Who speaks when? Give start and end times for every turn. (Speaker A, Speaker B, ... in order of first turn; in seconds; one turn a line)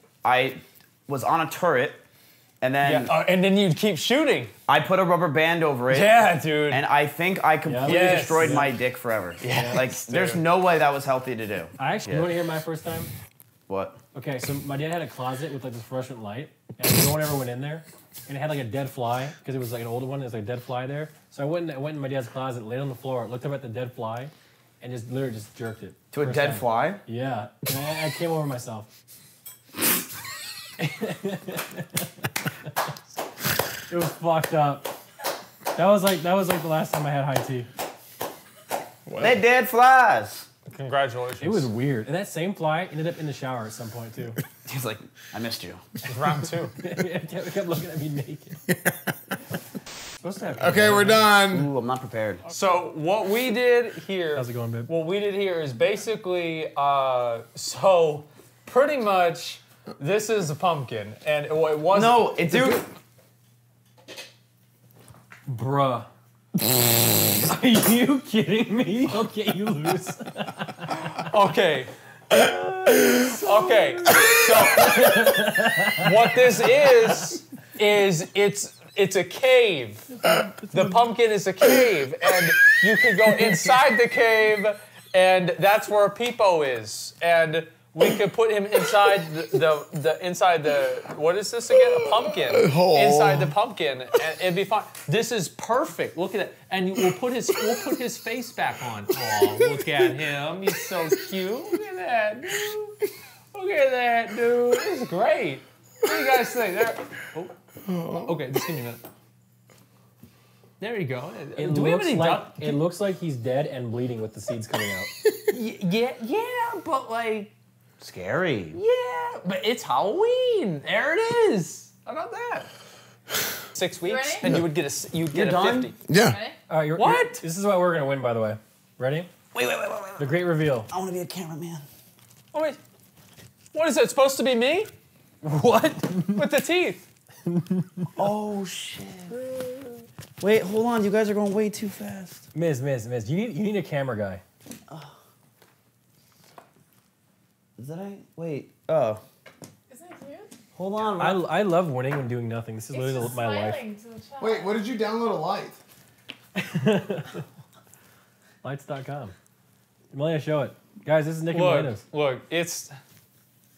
Speaker A: 0.2-2.0
Speaker A: 2.6-3.1
Speaker B: 2.8-4.5
Speaker A: 4.7-12.3
Speaker B: 5.9-6.8
Speaker C: 7.6-8.7
Speaker B: 9.4-10.4
Speaker C: 9.5-9.8
Speaker C: 11.8-13.1
Speaker A: 13.7-14.0
Speaker C: 14.1-28.9
Speaker A: 26.1-27.0
Speaker C: 30.8-32.1
Speaker C: 33.9-34.9
Speaker C: 35.7-37.7
Speaker D: 39.0-39.4
Speaker A: 39.2-40.5
Speaker B: 40.7-41.7
Speaker C: 41.4-44.4
Speaker A: 44.6-45.8
Speaker B: 46.0-46.7
Speaker C: 46.8-48.6
Speaker D: 48.7-49.1
Speaker C: 50.2-51.3
Speaker D: 50.6-51.7
Speaker A: 51.5-52.4
Speaker B: 52.5-62.3
Speaker C: 54.3-54.9
Speaker A: 61.9-62.8
Speaker C: 65.5-66.1
Speaker C: 67.4-71.2
Speaker B: 71.2-71.9
Speaker C: 72.3-76.4
Speaker B: 73.2-75.3
Speaker B: 76.0-103.0
Speaker C: 80.4-80.8
Speaker D: 91.9-93.5
Speaker D: 99.3-100.0
Speaker B: 103.5-107.5
Speaker D: 107.8-108.5
Speaker B: 108.2-109.0
Speaker B: 110.8-112.8
Speaker C: 111.5-115.1
Speaker B: 115.5-117.5
Speaker A: 118.0-118.8
Speaker B: 118.7-122.7
Speaker B: 123.7-126.0
Speaker E: 124.0-124.4
Speaker A: 125.3-125.9
Speaker D: 126.1-126.4
Speaker C: 126.7-129.3
Speaker B: 127.0-127.4
Speaker A: 129.5-130.3
Speaker C: 130.2-130.9
Speaker A: 130.9-131.8
Speaker B: 132.5-132.8
Speaker B: 133.7-134.9
Speaker C: 135.4-136.4
Speaker B: 136.3-137.0
Speaker C: 137.5-138.1
Speaker A: 138.2-139.3
Speaker A: 140.4-142.4
Speaker C: 142.5-144.4
Speaker A: 147.8-149.2
Speaker E: 149.9-150.5
Speaker A: 150.7-151.4
Speaker C: 151.2-153.8
Speaker E: 152.9-154.6
Speaker D: 154.4-155.8
Speaker C: 156.7-157.4
Speaker C: 158.6-159.3
Speaker C: 160.1-162.0
Speaker B: 161.5-162.9